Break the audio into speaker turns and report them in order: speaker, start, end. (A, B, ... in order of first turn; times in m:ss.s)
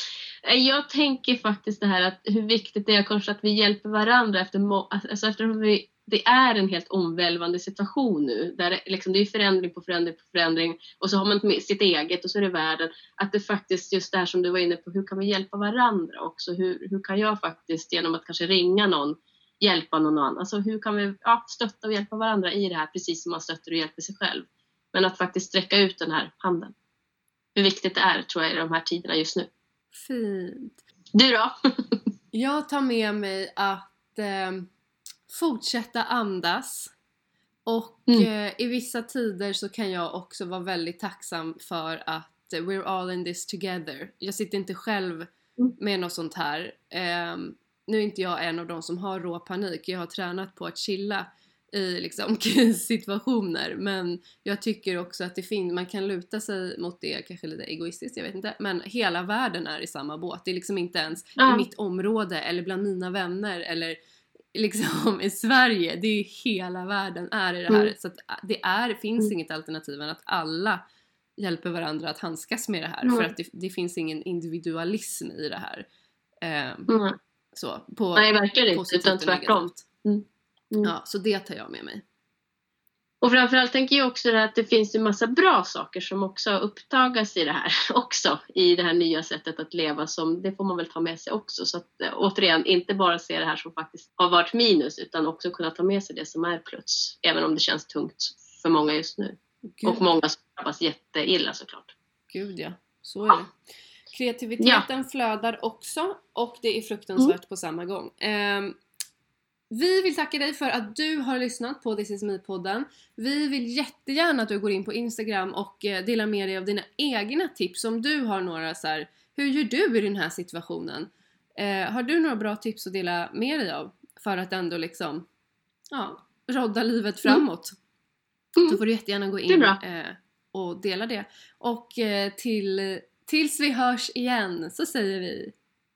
0:00.4-0:26.7 A
0:27.6-0:29.5 A
0:29.9-0:30.8 B
0:31.1-0:32.0 A
0:32.3-0:34.7 B
0:35.3-0:36.9 B
0:37.6-1:04.0 B
1:01.4-1:01.6 A
1:04.5-1:10.8 B
1:11.4-1:15.8 B
1:13.0-1:13.3 A
1:16.4-1:16.9 B
1:16.9-1:17.2 A
1:17.5-1:19.8 B
1:18.2-1:20.9 A
1:20.8-1:22.0 B
1:23.2-1:41.9 A
1:39.7-1:40.1 B
1:42.3-1:43.5 B
1:44.1-1:48.8 B
1:44.6-1:44.8 A
1:49.7-2:05.3 B
2:05.9-2:07.7 B
2:08.6-2:15.5 B
2:09.5-2:09.8 A